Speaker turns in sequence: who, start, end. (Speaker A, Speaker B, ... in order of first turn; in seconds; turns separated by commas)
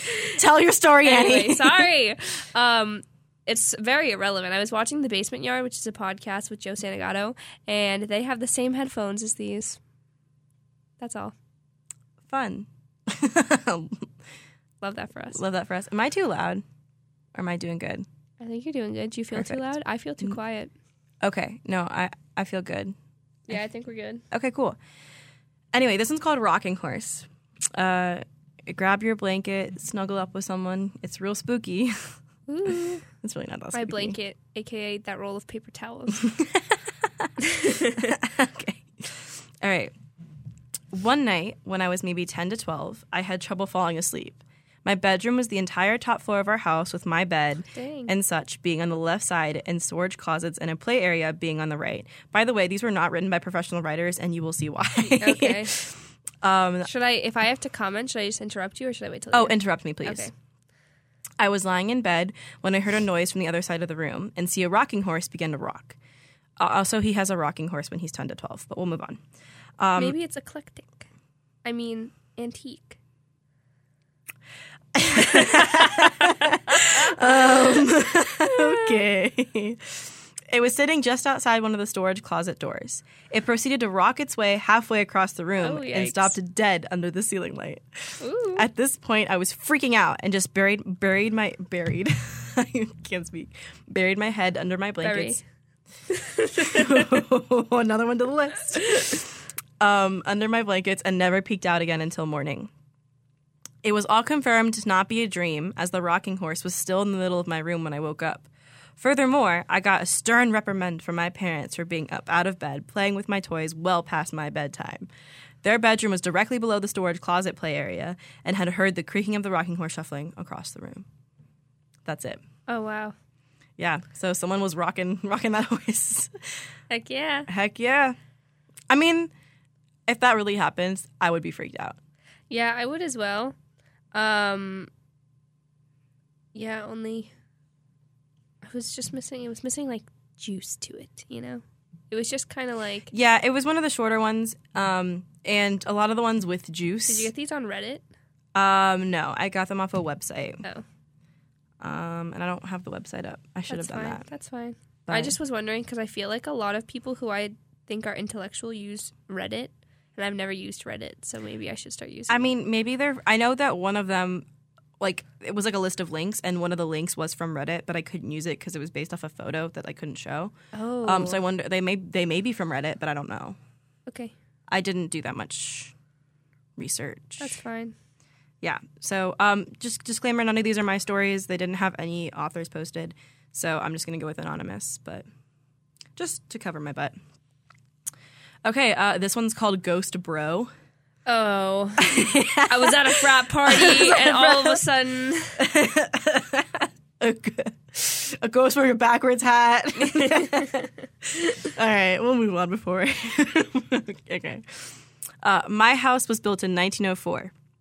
Speaker A: 0.3-1.9, Speaker B: 1.0-9.8, Speaker B: 11.0-11.3, Speaker A: 12.3-14.1, Speaker B: 14.8-15.4, Speaker A: 15.3-16.6, Speaker A: 17.3-18.1, Speaker B: 18.4-20.7, Speaker A: 19.3-20.4, Speaker A: 21.2-22.9, Speaker B: 23.5-24.2, Speaker A: 24.3-24.8, Speaker A: 25.7-32.1, Speaker B: 32.5-33.0, Speaker A: 33.2-34.2, Speaker B: 33.7-36.3, Speaker A: 36.2-39.9, Speaker B: 37.4-38.1, Speaker A: 40.9-56.9, Speaker B: 47.7-48.1, Speaker B: 55.2-55.8, Speaker B: 56.8-60.3, Speaker A: 59.3-60.3, Speaker A: 61.4-66.0, Speaker A: 66.6-69.2, Speaker A: 69.8-70.2, Speaker B: 70.0-71.1, Speaker B: 71.6-73.0, Speaker A: 74.9-87.8, Speaker B: 75.1-77.8, Speaker B: 78.4-79.0, Speaker B: 85.6-86.3, Speaker B: 88.2-88.7, Speaker A: 88.5-95.4, Speaker B: 95.0-95.4, Speaker B: 96.1-97.1, Speaker A: 96.5-102.7, Speaker A: 103.8-115.1, Speaker A: 115.6-121.0, Speaker A: 122.0-122.4, Speaker B: 122.7-123.1, Speaker A: 123.8-126.3, Speaker B: 126.9-127.5, Speaker A: 127.5-128.2, Speaker A: 128.9-129.3, Speaker A: 130.1-132.0, Speaker B: 132.5-133.5, Speaker B: 134.1-134.9, Speaker B: 136.5-137.3, Speaker B: 138.6-143.1, Speaker A: 143.1-147.3, Speaker B: 147.1-148.0, Speaker A: 148.5-150.6, Speaker A: 151.8-154.2, Speaker B: 153.7-162.5, Speaker A: 155.1-155.3, Speaker A: 162.3-164.4, Speaker A: 165.0-173.6, Speaker B: 170.7-171.4, Speaker B: 174.1-174.3, Speaker A: 174.7-175.9, Speaker A: 176.8-177.6, Speaker B: 177.4-177.9, Speaker A: 178.6-185.2, Speaker A: 186.2-187.1, Speaker A: 188.6-190.7, Speaker B: 191.2-192.1, Speaker A: 192.0-194.8, Speaker B: 192.7-195.6, Speaker A: 195.6-204.8, Speaker A: 205.4-207.5